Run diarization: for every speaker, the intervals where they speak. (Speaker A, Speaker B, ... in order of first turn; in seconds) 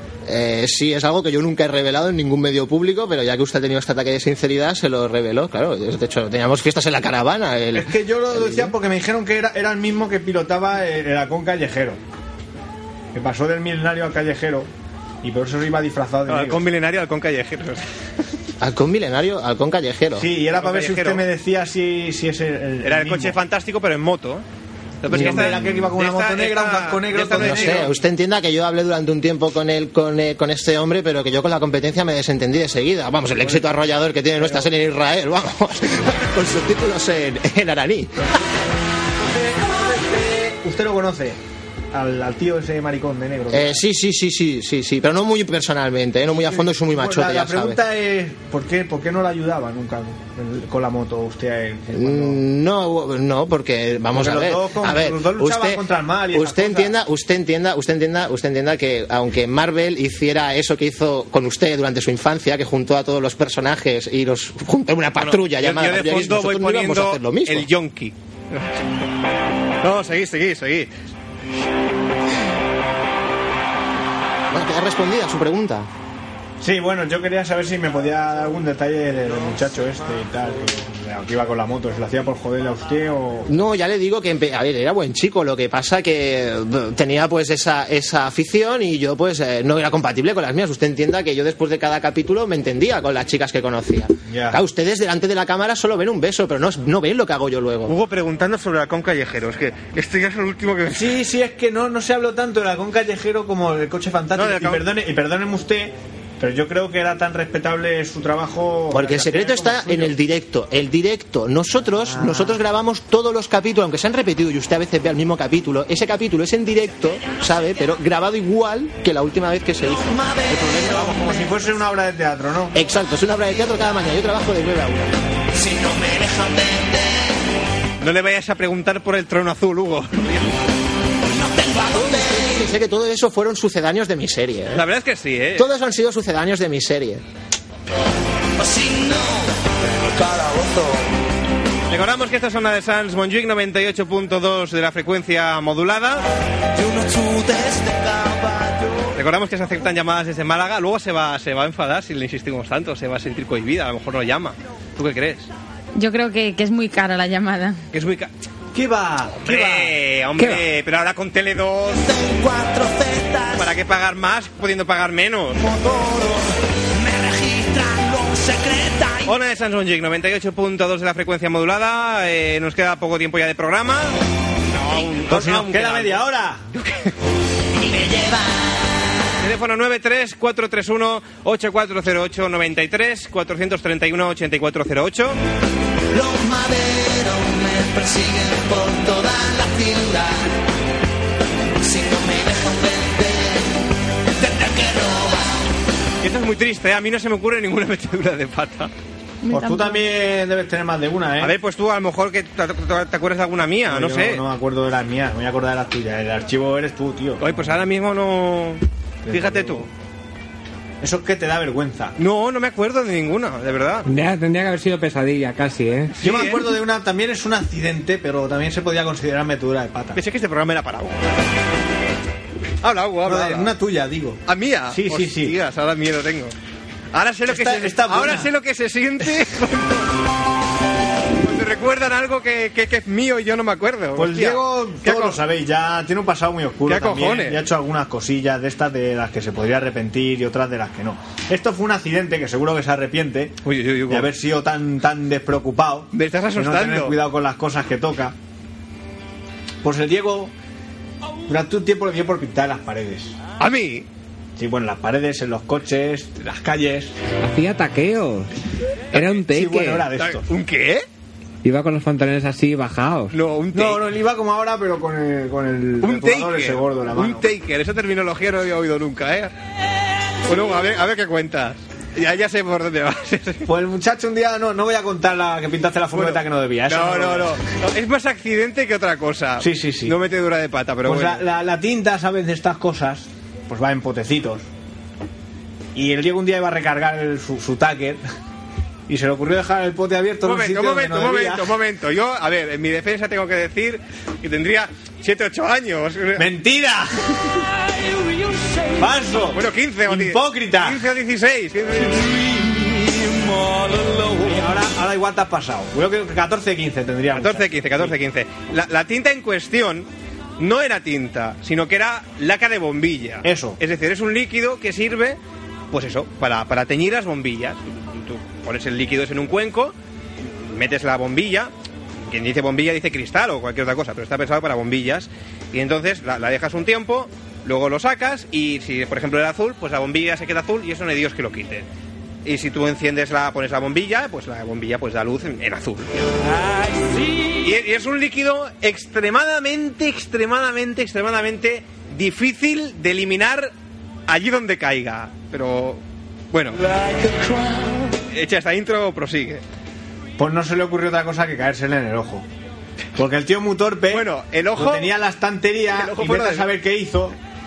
Speaker A: 0.2-8.7, 18.6-20.3, 25.1-25.9, 27.3-38.3, 43.5-47.8, 51.9-67.7, 74.5-75.9, 83.5-98.0, 108.9-121.2, 122.7-125.1, 131.9-134.8, 135.6-137.2
Speaker B: 7.7-12.0, 13.1-14.7, 15.2-16.6, 20.2-23.4, 25.1-27.9, 33.4-33.8, 34.4-34.7, 39.3-41.4, 41.9-43.8, 46.3-52.4, 54.1-56.9, 76.6-83.5, 94.3-94.6, 100.9-110.1, 112.1-112.6, 120.9-122.7, 158.7-159.9, 175.3-176.6, 199.5-201.5, 203.9-207.4, 209.2-209.9, 211.0-212.1, 216.2-220.2, 223.2-225.6, 227.5-228.5, 234.2-243.6, 244.1-248.3, 249.8-250.5, 251.5-253.3, 254.6-257.1, 259.4-260.5, 263.7-267.4, 273.7-277.6, 279.6-280.1, 281.0-284.6, 285.9-288.2, 289.1-291.7, 296.4-297.3, 299.0-301.0, 304.4-308.1, 313.4-313.8, 350.4-352.4, 353.1-357.4
Speaker C: 16.3-17.8, 20.6-21.2, 22.8-24.4, 25.0-27.9, 65.2-68.8, 69.8-70.9, 97.9-101.2, 104.3-104.8, 128.0-130.6, 134.7-135.7, 141.9-146.2, 149.1-155.5, 157.9-158.3, 159.4-162.1, 163.5-165.7, 169.2-174.2, 174.7-177.1, 179.4-185.4, 196.2-198.9, 201.4-204.4, 207.4-209.9, 212.2-214.1, 216.2-216.7, 220.1-221.2, 222.8-223.7, 224.5-226.5, 227.1-230.1, 231.4-235.4, 236.8-237.6, 243.6-244.3, 246.1-247.2, 253.6-254.1, 260.2-261.1, 263.3-264.0, 266.0-269.5, 270.5-273.6, 276.1-281.4, 290.4-296.5, 299.5-302.3, 307.3-315.4, 315.9-319.9, 320.6-321.7, 322.2-331.9, 332.4-336.1, 337.6-343.7, 344.3-346.8, 348.3-349.6, 354.1-355.1, 355.9-356.7
Speaker D: 120.0-121.3, 125.5-127.3, 131.3-132.7, 138.6-141.1, 146.7-149.1, 161.9-163.7, 165.6-169.3, 177.8-178.9, 186.1-190.5, 191.8-193.7, 194.4-195.6, 302.4-304.5, 336.8-337.1, 346.8-348.1
Speaker E: 155.9-157.8, 199.4-200.0
Speaker F: 160.4-160.6, 214.1-216.2, 257.4-258.5, 259.1-260.1, 261.6-263.3